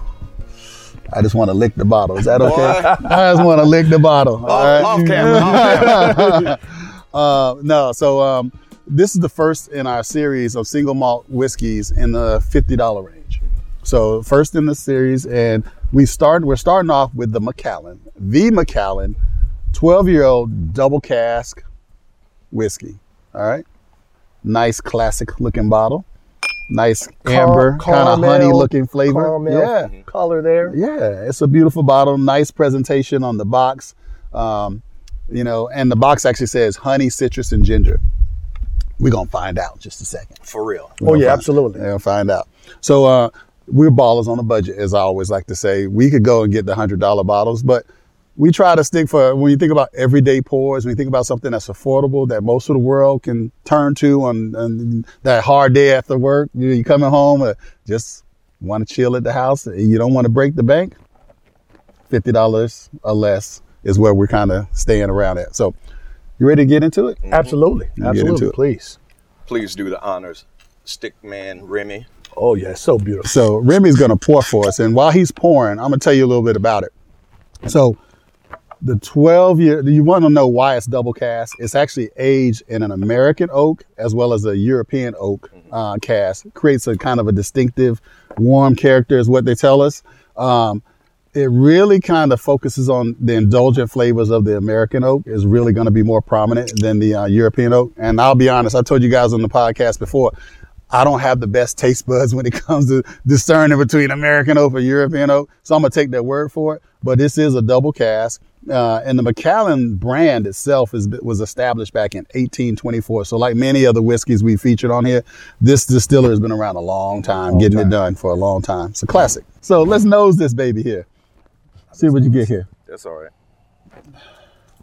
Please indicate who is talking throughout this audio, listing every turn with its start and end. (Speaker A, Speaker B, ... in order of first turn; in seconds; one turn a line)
Speaker A: 1.1-19.2
Speaker B: 2.4-3.0
Speaker C: 2.8-3.4
Speaker B: 4.4-6.5
Speaker C: 4.5-6.5
Speaker A: 19.7-21.6
Speaker A: 22.5-23.6
Speaker A: 24.4-26.1
Speaker A: 26.7-29.9
Speaker C: 27.2-30.8
Speaker A: 30.6-38.0
Speaker A: 39.0-40.4
Speaker B: 40.4-41.0
Speaker A: 41.0-61.0
Speaker C: 41.0-41.8
Speaker A: 62.1-65.7
Speaker A: 66.4-67.2
Speaker B: 67.2-67.6
Speaker C: 67.3-69.0
Speaker A: 68.0-68.5
Speaker B: 69.5-72.1
Speaker C: 72.3-73.4
Speaker A: 73.2-76.9
Speaker A: 77.6-78.0
Speaker A: 78.8-90.8
Speaker A: 91.3-100.3
Speaker A: 100.9-121.1
Speaker B: 117.1-117.8
Speaker B: 121.9-123.3
Speaker A: 122.0-122.7